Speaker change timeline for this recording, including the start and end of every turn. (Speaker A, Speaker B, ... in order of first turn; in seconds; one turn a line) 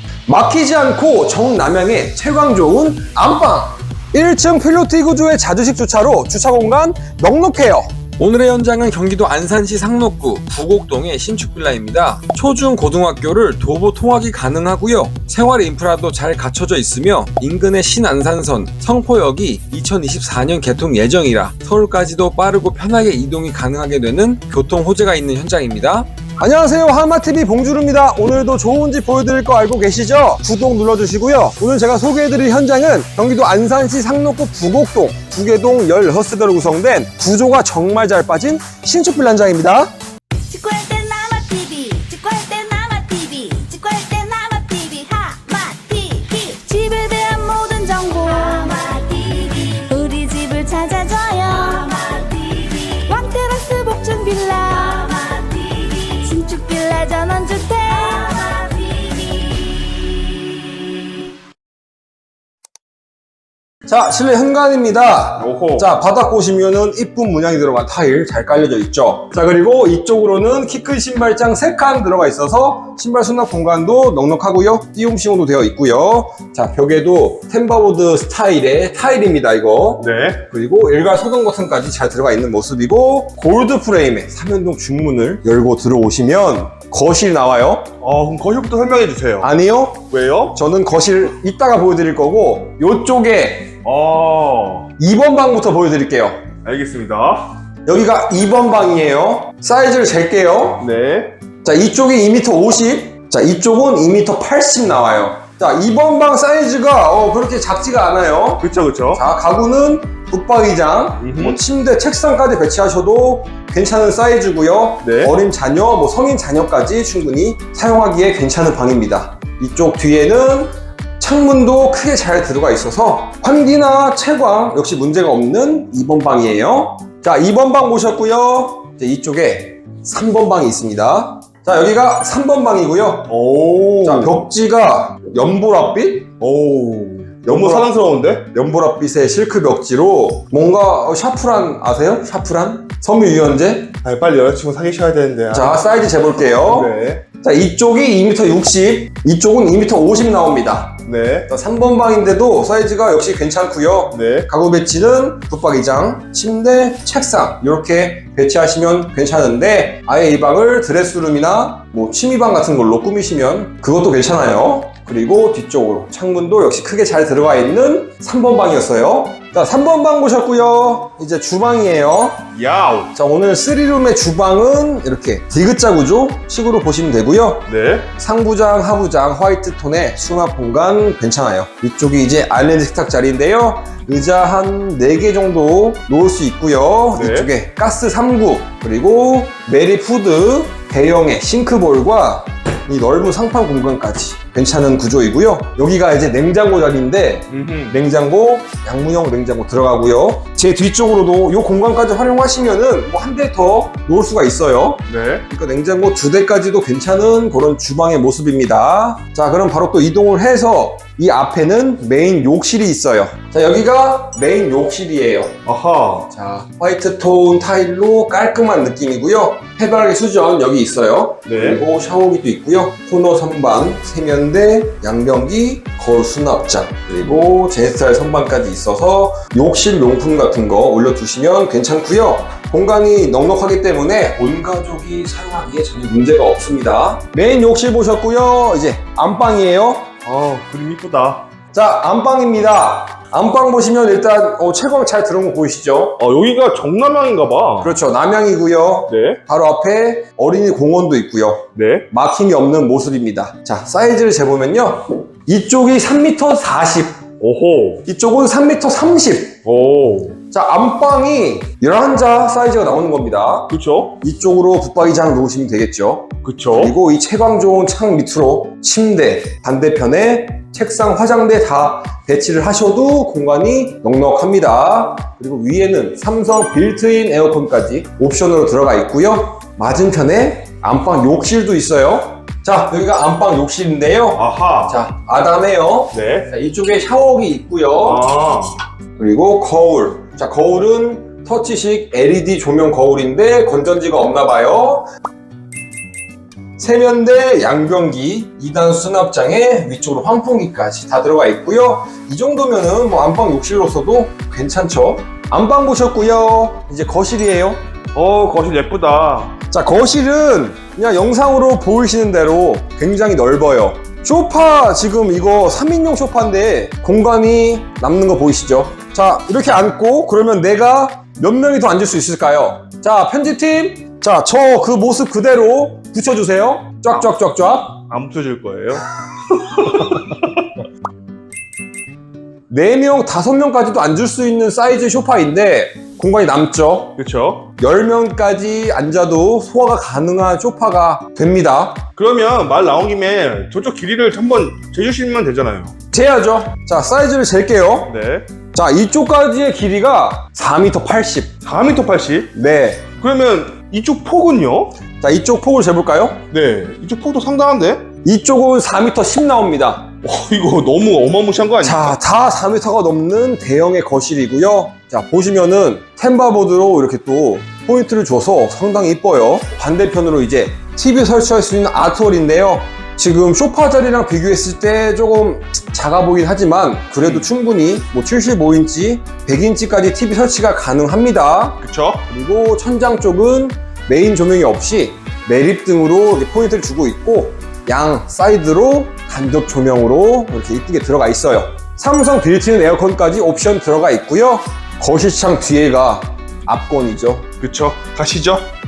Speaker A: 0.3-39.9
Speaker B: 40.5-59.7
Speaker A: 63.9-87.9
Speaker C: 65.4-65.9
Speaker C: 80.0-80.4
Speaker C: 88.0-89.5
Speaker A: 89.4-93.8
Speaker C: 90.1-90.6
Speaker C: 93.8-94.9
Speaker A: 95.0-96.4
Speaker C: 96.6-97.5
Speaker A: 97.8-100.9
Speaker C: 100.8-101.3
Speaker A: 101.6-133.3
Speaker C: 108.6-109.2
Speaker C: 111.2-111.6
Speaker C: 115.0-115.3
Speaker C: 133.3-134.3
Speaker A: 134.0-136.3
Speaker C: 136.4-138.5
Speaker A: 137.4-137.9
Speaker A: 138.5-143.9
Speaker C: 144.0-145.8
Speaker A: 145.5-172.5
Speaker C: 146.7-147.2
Speaker C: 151.1-151.5
Speaker C: 154.1-154.5
Speaker C: 172.5-173.1
Speaker A: 173.1-215.6
Speaker C: 177.7-178.1
Speaker C: 187.1-187.5
Speaker C: 197.5-198.0
Speaker C: 205.1-205.4
Speaker C: 215.6-216.3
Speaker A: 216.3-240.1
Speaker C: 221.5-221.8
Speaker C: 240.2-241.5
Speaker A: 241.7-246.2
Speaker C: 246.2-247.9
Speaker A: 247.8-257.3
Speaker C: 249.1-249.4
Speaker C: 251.8-252.1
Speaker C: 257.4-258.0
Speaker A: 258.0-259.6
Speaker C: 259.6-260.4
Speaker A: 260.5-288.2
Speaker C: 263.7-264.2
Speaker C: 266.4-267.0
Speaker C: 284.4-285.0
Speaker C: 286.1-286.5
Speaker C: 288.0-288.7
Speaker A: 289.2-295.1
Speaker A: 296.8-307.8
Speaker C: 308.1-309.6
Speaker A: 309.7-328.0
Speaker C: 328.1-330.6
Speaker A: 332.7-337.2
Speaker C: 337.2-337.7
Speaker A: 337.8-342.1
Speaker C: 342.1-345.9
Speaker A: 346.1-348.1
Speaker C: 348.1-348.4
Speaker A: 348.7-351.5
Speaker C: 351.6-352.5
Speaker A: 352.5-353.1
Speaker C: 353.1-354.9
Speaker A: 355.2-356.4
Speaker C: 356.5-358.1
Speaker A: 358.2-360.1
Speaker C: 360.2-362.2
Speaker A: 361.8-397.4
Speaker C: 377.2-377.5
Speaker C: 381.8-382.2
Speaker C: 397.6-398.7